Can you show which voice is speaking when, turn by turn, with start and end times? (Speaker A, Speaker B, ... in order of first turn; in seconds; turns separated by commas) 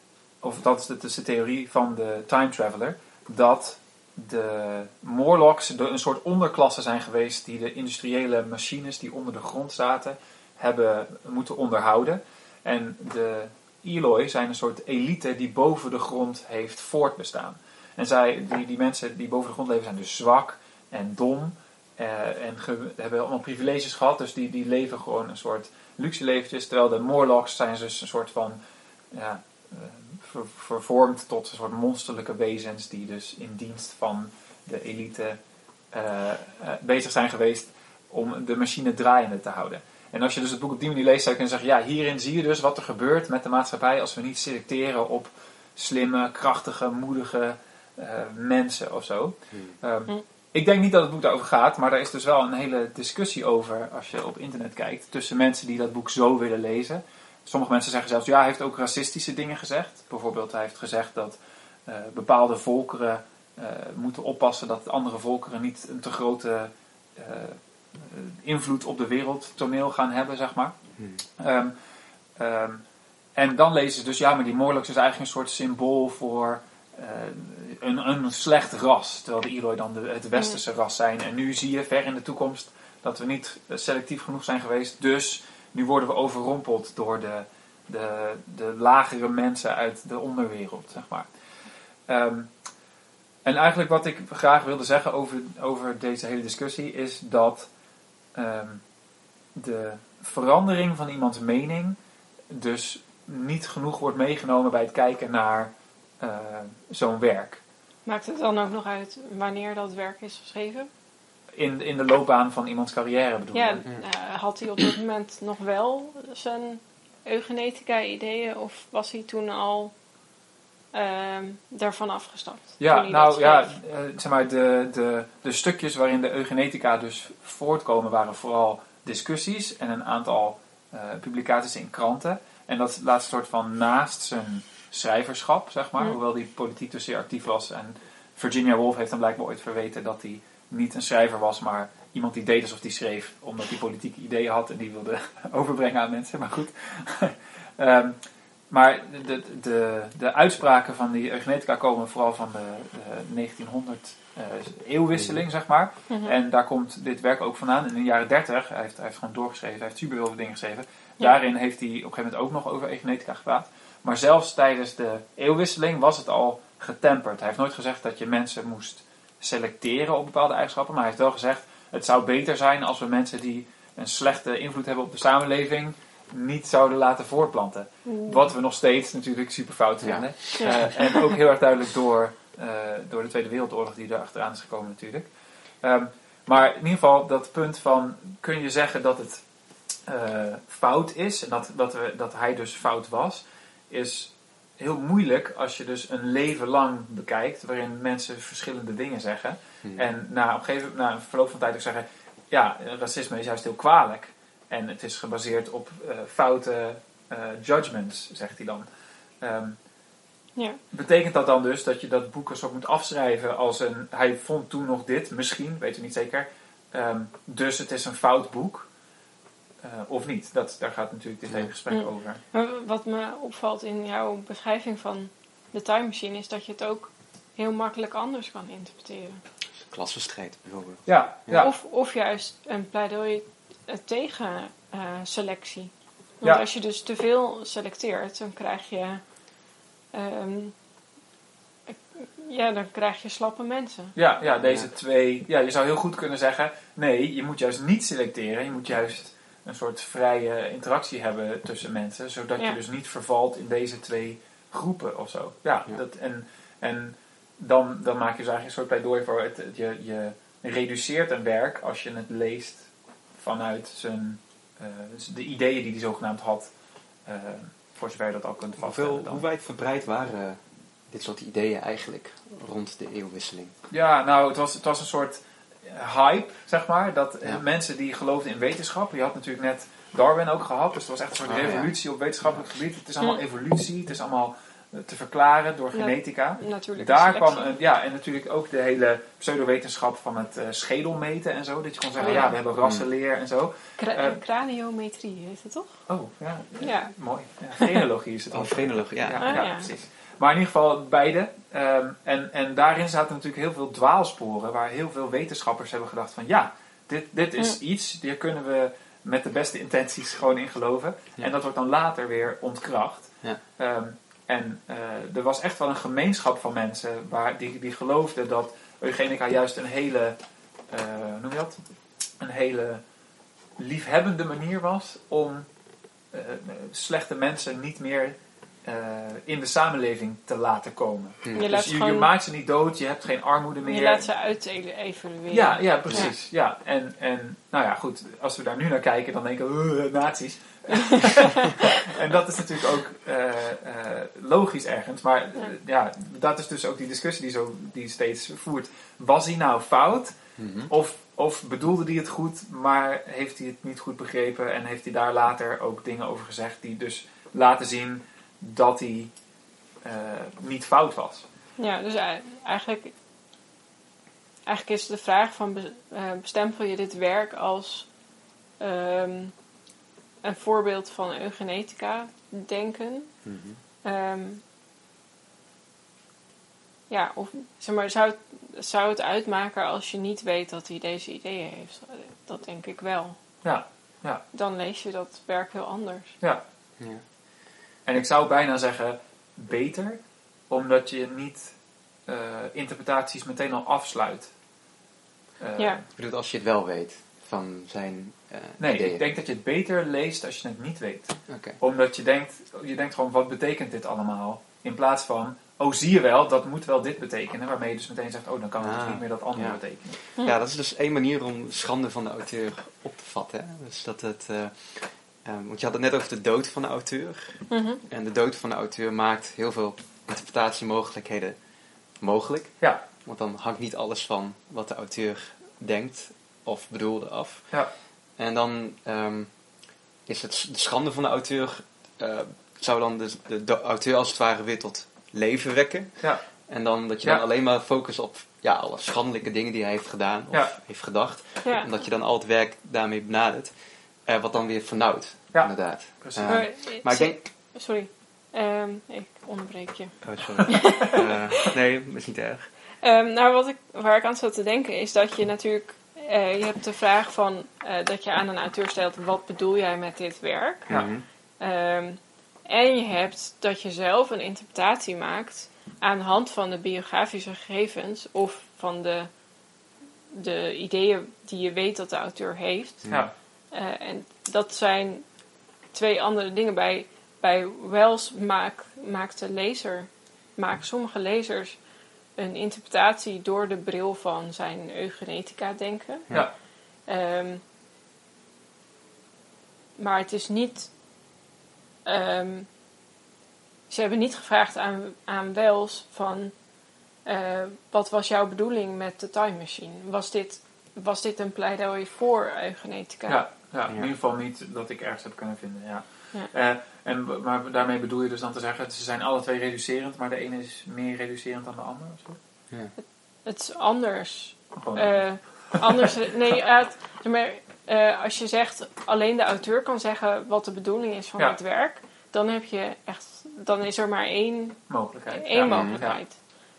Speaker A: 0.4-28.6, Speaker A: 29.1-35.4, Speaker A: 35.9-70.7, Speaker B: 49.5-49.8, Speaker A: 71.4-71.7, Speaker A: 72.4-72.8, Speaker A: 73.3-91.3, Speaker A: 92.1-92.5, Speaker A: 93.4-97.7, Speaker A: 98.3-98.8, Speaker A: 99.5-102.0, Speaker A: 102.5-107.6, Speaker C: 108.0-110.9, Speaker A: 111.5-113.8, Speaker C: 113.5-119.9, Speaker C: 120.9-123.7, Speaker A: 122.8-148.2, Speaker A: 148.7-185.3, Speaker C: 156.1-156.3, Speaker C: 178.1-178.4, Speaker B: 180.0-180.9, Speaker A: 185.8-189.4, Speaker A: 190.1-208.8, Speaker A: 209.4-209.8, Speaker A: 210.9-218.9, Speaker A: 219.8-222.4, Speaker C: 221.9-229.4, Speaker B: 229.8-231.7, Speaker A: 231.1-231.7, Speaker C: 231.5-239.2, Speaker C: 240.1-240.7, Speaker C: 241.9-244.1, Speaker A: 244.1-262.9, Speaker B: 244.6-244.9, Speaker A: 263.4-266.7, Speaker A: 267.2-269.4, Speaker B: 268.8-273.7, Speaker A: 273.9-294.4, Speaker B: 281.4-281.9, Speaker C: 285.9-287.7, Speaker C: 292.2-292.5, Speaker B: 292.3-293.1, Speaker C: 294.0-296.0, Speaker A: 296.1-320.4, Speaker C: 296.8-297.1, Speaker C: 297.8-298.0, Speaker B: 298.5-299.6, Speaker C: 299.4-299.9, Speaker A: 320.9-321.8, Speaker A: 322.4-323.0, Speaker A: 323.8-325.6, Speaker A: 326.3-334.2, Speaker C: 331.5-332.3, Speaker C: 333.8-336.3, Speaker A: 335.5-350.4, Speaker C: 341.0-341.8, Speaker B: 350.6-350.9, Speaker A: 350.9-359.3, Speaker A: 360.0-361.4, Speaker C: 361.8-363.1, Speaker C: 364.6-368.1, Speaker C: 368.8-369.5, Speaker C: 370.4-373.3, Speaker B: 373.4-373.8, Speaker C: 374.0-374.6, Speaker C: 377.1-383.4, Speaker A: 383.6-384.4, Speaker C: 384.5-386.3, Speaker B: 387.0-387.2, Speaker A: 388.1-391.7, Speaker A: 392.3-394.5, Speaker A: 395.6-396.0, Speaker B: 396.1-399.2, Speaker A: 398.8-410.2, Speaker B: 401.5-401.8, Speaker B: 408.8-421.6, Speaker C: 417.7-418.0, Speaker B: 422.2-427.6, Speaker B: 428.4-429.5, Speaker B: 430.2-443.7, Speaker A: 436.2-436.4, Speaker B: 444.2-447.4, Speaker A: 445.5-446.6, Speaker C: 446.4-451.7, Speaker B: 450.2-452.7, Speaker C: 453.0-460.9, Speaker B: 460.9-461.2, Speaker C: 461.6-469.3, Speaker C: 470.3-473.1, Speaker B: 473.0-473.3, Speaker C: 473.7-475.2, Speaker C: 475.9-481.8, Speaker C: 482.4-486.3, Speaker C: 487.1-487.6, Speaker C: 490.0-490.9, Speaker C: 492.1-492.7, Speaker C: 493.9-496.5, Speaker C: 497.2-503.4, Speaker A: 503.3-512.4, Speaker C: 513.0-526.4, Speaker A: 514.8-516.0, Speaker A: 524.9-526.2, Speaker B: 525.5-526.0